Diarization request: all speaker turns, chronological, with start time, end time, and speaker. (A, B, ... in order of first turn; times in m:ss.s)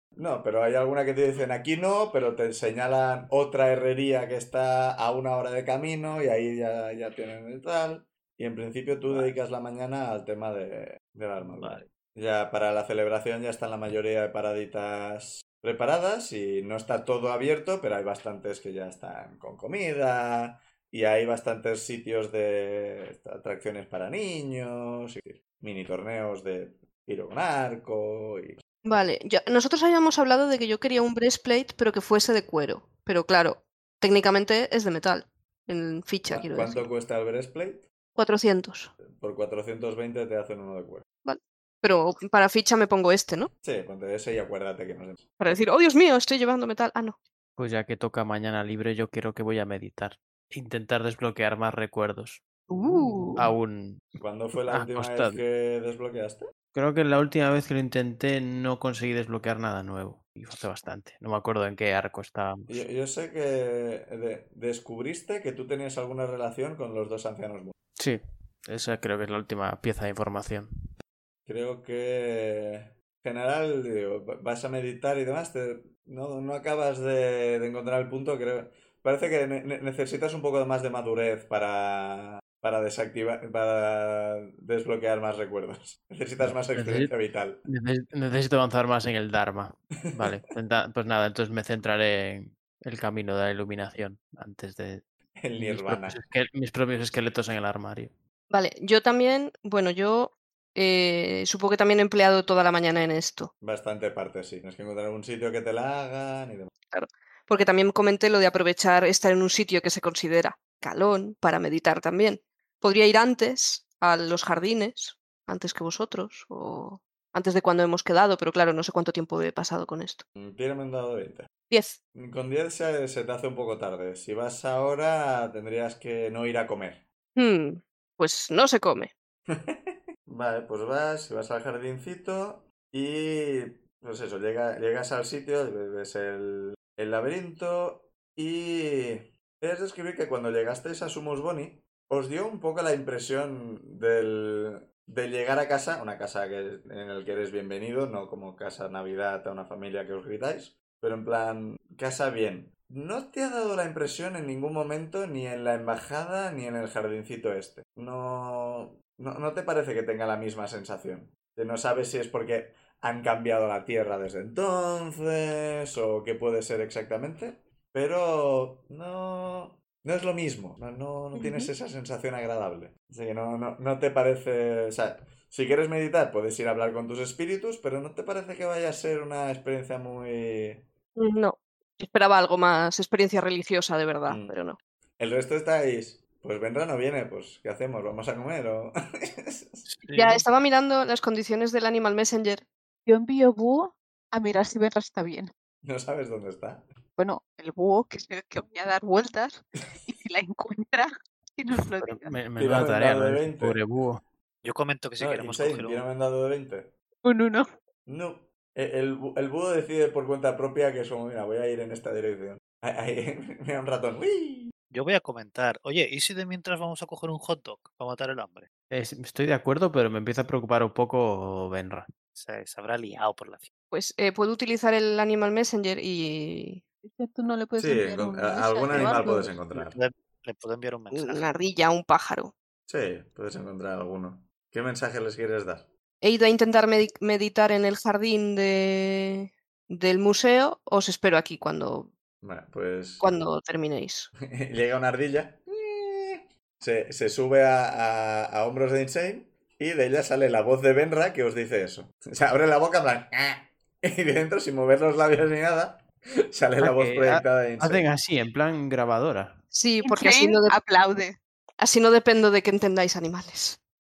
0:00.2-0:28.6 A
0:09.1-0:09.3 B
0:11.4-0:11.9 B
0:28.8-0:36.8 C
0:36.3-0:37.8 A
0:38.2-0:38.9 C
0:39.1-0:41.0 A
0:41.2-0:43.5 C
0:43.6-0:45.3 A
0:45.4-0:47.2 C
0:47.6-0:52.5 D
0:52.7-0:53.4 C
0:53.4-0:54.0 D
0:54.2-0:56.5 A
0:54.7-0:55.4 D
0:56.7-1:02.8 D
1:02.7-1:07.8 A
1:08.0-1:10.7 D
1:11.5-1:27.6 A
1:26.4-1:27.1 D
1:27.7-1:35.0 D
1:30.1-1:30.4 A
1:35.4-1:36.2 A
1:35.6-1:38.1 D
1:38.5-1:43.5 C
1:43.6-1:46.7 A
1:46.9-2:00.2 C
2:00.4-2:01.5 A
2:01.7-2:02.0 C
2:02.1-2:07.0 A
2:07.4-2:09.1 C
2:09.5-3:00.9 A
2:51.4-2:51.7 C
3:01.2-3:04.8 C
3:04.3-3:04.6 A
3:05.2-3:09.8 A
3:09.9-3:10.4 B
3:10.1-3:12.7 C
3:13.1-3:15.5 E
3:15.8-3:16.9 A
3:17.2-3:22.4 E
3:22.0-3:24.2 D
3:22.6-3:23.8 A
3:24.6-3:26.1 B
3:25.2-3:26.9 A
3:27.2-3:27.7 E
3:28.1-3:34.7 A
3:34.9-3:38.7 B
3:38.9-3:42.1 D
3:42.4-3:43.7 B
3:43.9-3:46.8 C
3:47.0-3:49.6 E
3:47.8-3:50.0 A
3:48.9-3:51.4 B
3:51.1-3:52.5 C
3:52.9-3:55.9 A
3:56.2-4:02.1 C
4:02.4-4:03.3 A
4:03.2-4:04.3 C
4:04.4-4:18.1 A
4:16.8-4:19.6 D
4:19.7-4:20.8 C
4:20.0-4:21.4 E
4:21.8-4:23.8 C